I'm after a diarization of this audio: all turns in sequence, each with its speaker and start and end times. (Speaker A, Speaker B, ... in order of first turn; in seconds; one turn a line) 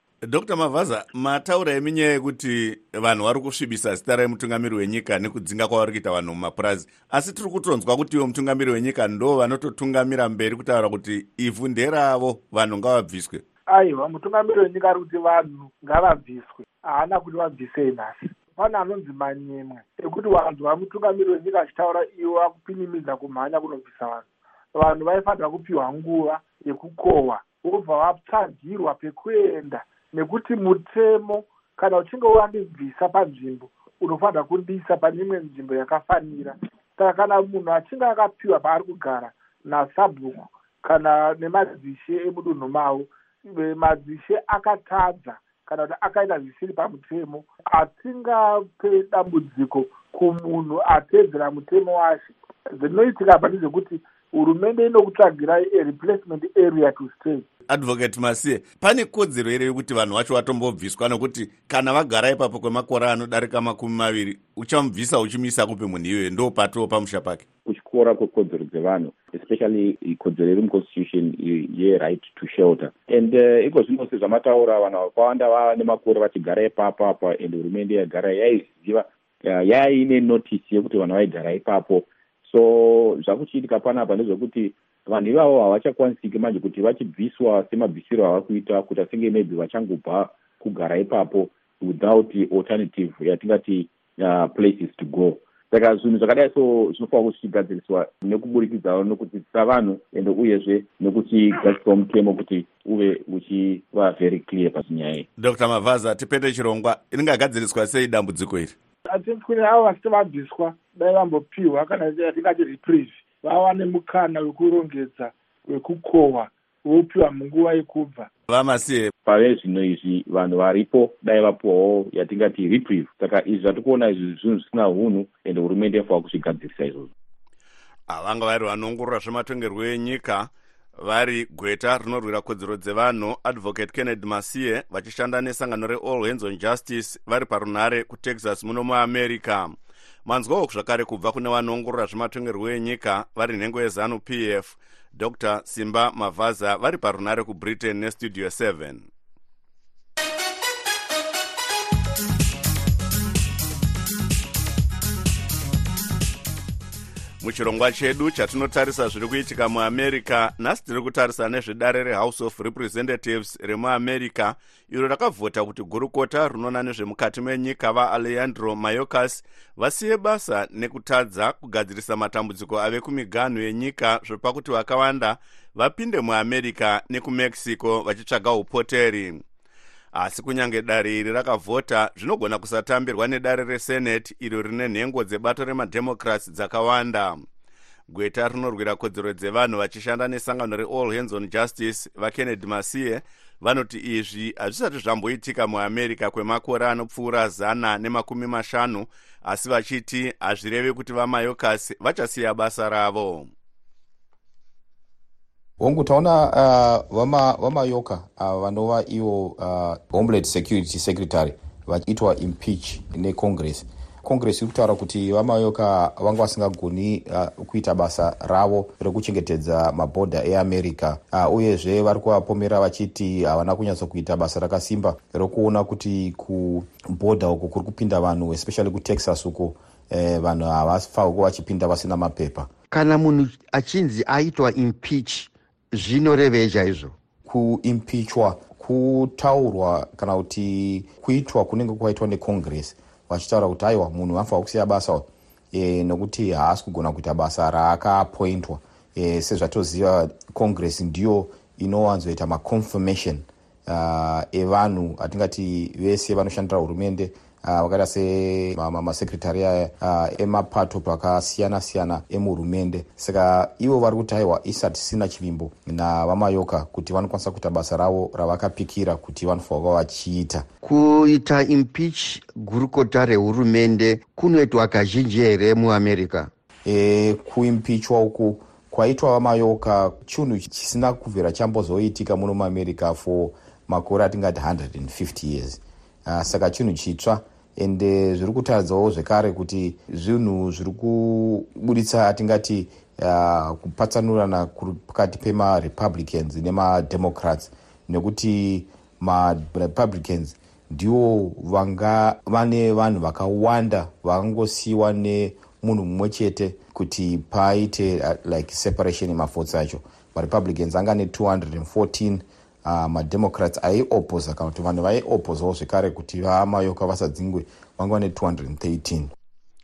Speaker A: 0.2-13.4
Speaker B: 13.7-57.4
Speaker A: 57.7-67.4
Speaker C: 67.6-105.3
Speaker A: 105.4-108.7
Speaker B: 109.1-118.3
Speaker A: 118.5-119.1
Speaker C: 119.2-127.1
Speaker A: 128.1-149.1
Speaker A: 157.4-179.4
Speaker A: 180.1-187.4
Speaker A: 188.1-203.5
Speaker D: 205.8-232.7
Speaker E: 232.9-237.1
Speaker D: 237.4-270.7
Speaker E: 270.8-276.5
Speaker D: 276.9-319.3